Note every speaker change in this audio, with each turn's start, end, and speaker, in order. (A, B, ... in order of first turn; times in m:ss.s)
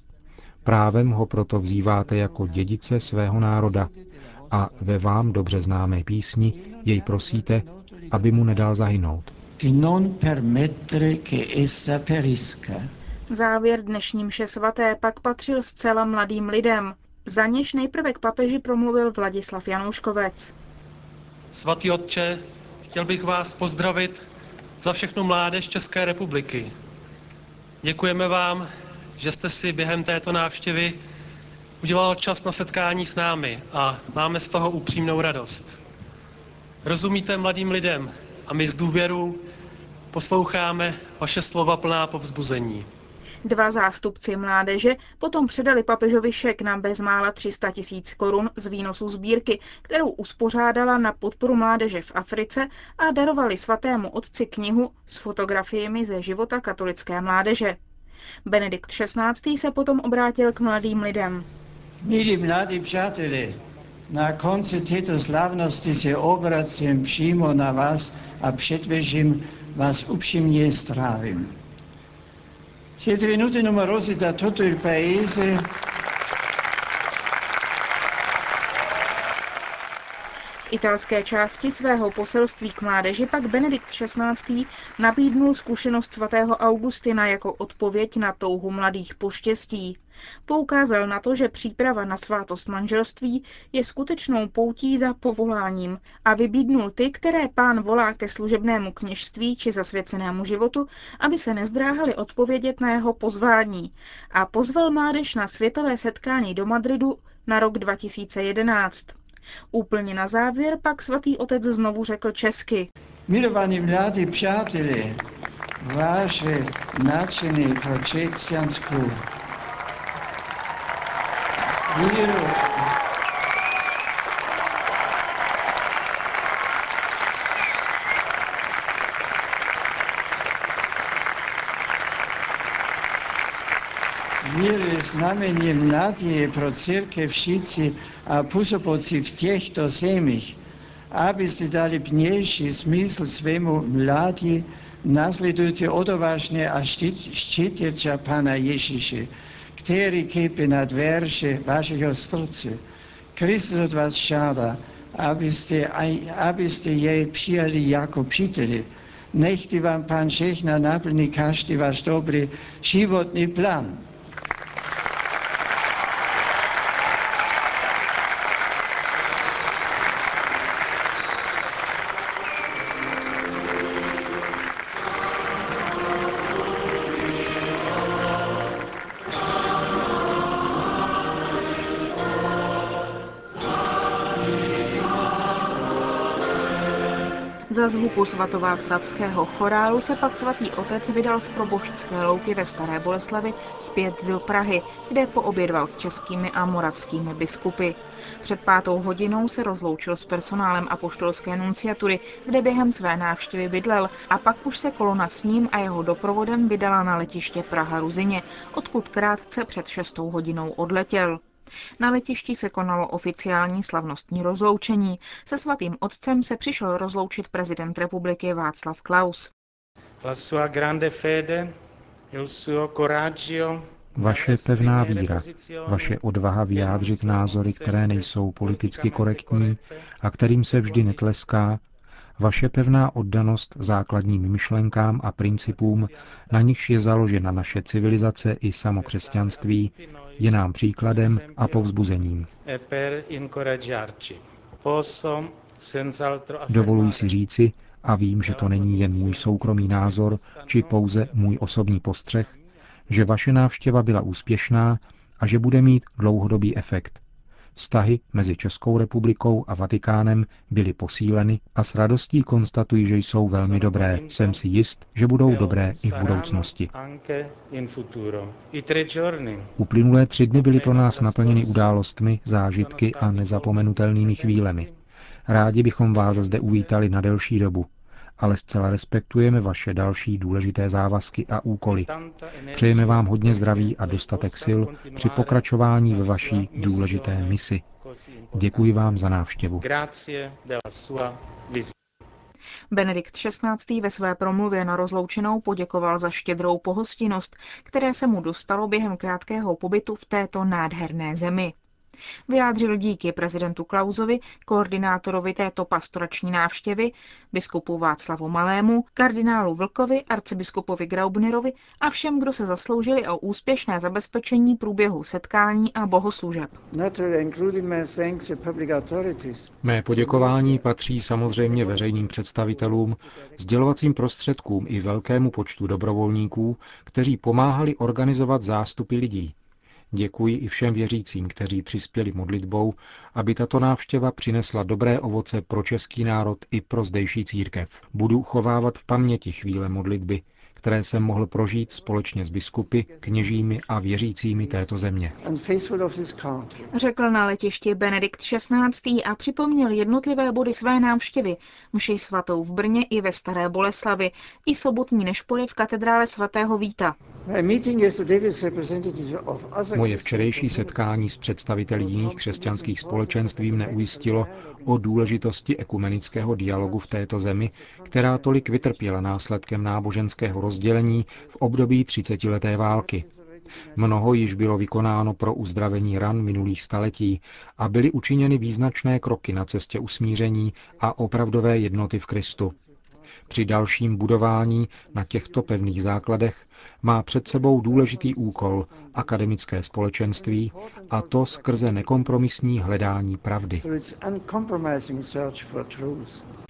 0:00.6-0:03.9 A
0:02.6-0:05.5 B
0:04.5-0:09.3 A
0:06.5-0:08.8 B
0:09.6-0:12.9 B
0:13.3-0:20.5 C
0:21.5-0:24.2 D
0:24.8-0:26.7 D
0:27.8-0:31.0 D
0:31.8-0:35.8 D
0:36.8-0:39.4 D
0:40.1-0:42.9 D
0:43.4-0:57.8 C
0:58.4-1:01.4 C
1:02.0-1:11.5 B
1:13.0-1:15.7 B
1:20.7-1:49.2 C
1:49.7-1:52.9 C
1:53.3-1:55.2 B
1:55.8-1:59.2 B
2:01.9-2:02.9 B
2:14.4-2:20.6 B
2:21.1-2:32.8 B
2:33.3-2:44.0 B
3:07.7-3:31.4 C
3:32.0-3:39.5 C
3:40.2-3:41.7 E
3:42.3-3:46.2 E
3:44.2-3:51.8 A
3:46.7-3:50.0 E
3:50.7-3:51.3 E
3:52.4-4:02.5 A
3:55.6-3:56.6 E
3:57.3-3:57.8 E
3:59.0-4:01.9 E
4:02.6-4:07.3 E
4:06.7-4:12.5 A
4:08.4-4:11.7 E
4:13.1-4:17.2 A
4:17.7-4:26.9 A
4:23.5-4:24.6 E
4:25.4-4:29.7 E
4:29.8-4:34.9 A
4:30.5-4:31.9 E
4:32.7-4:35.0 E
4:35.5-4:42.1 A
4:36.1-4:36.9 E
4:41.9-4:48.9 E
4:42.7-4:47.8 A
4:48.5-4:49.8 A
4:49.8-4:51.9 E
4:52.9-5:01.7 C
5:02.5-5:16.8 C
5:16.9-5:23.1 B
5:19.8-5:29.5 A
5:30.1-5:45.4 A
5:43.1-5:43.7 B
5:44.3-5:46.9 B
5:46.9-5:57.2 C
5:57.4-6:01.0 B
5:59.9-6:13.3 A
6:02.0-6:05.4 B
6:06.3-6:09.0 B
6:10.6-6:11.2 B
6:12.9-6:14.2 B
6:14.0-6:22.7 A
6:23.5-6:33.8 A
6:25.2-6:25.8 B
6:27.5-6:29.6 B
6:30.3-6:32.5 B
6:33.8-6:36.4 B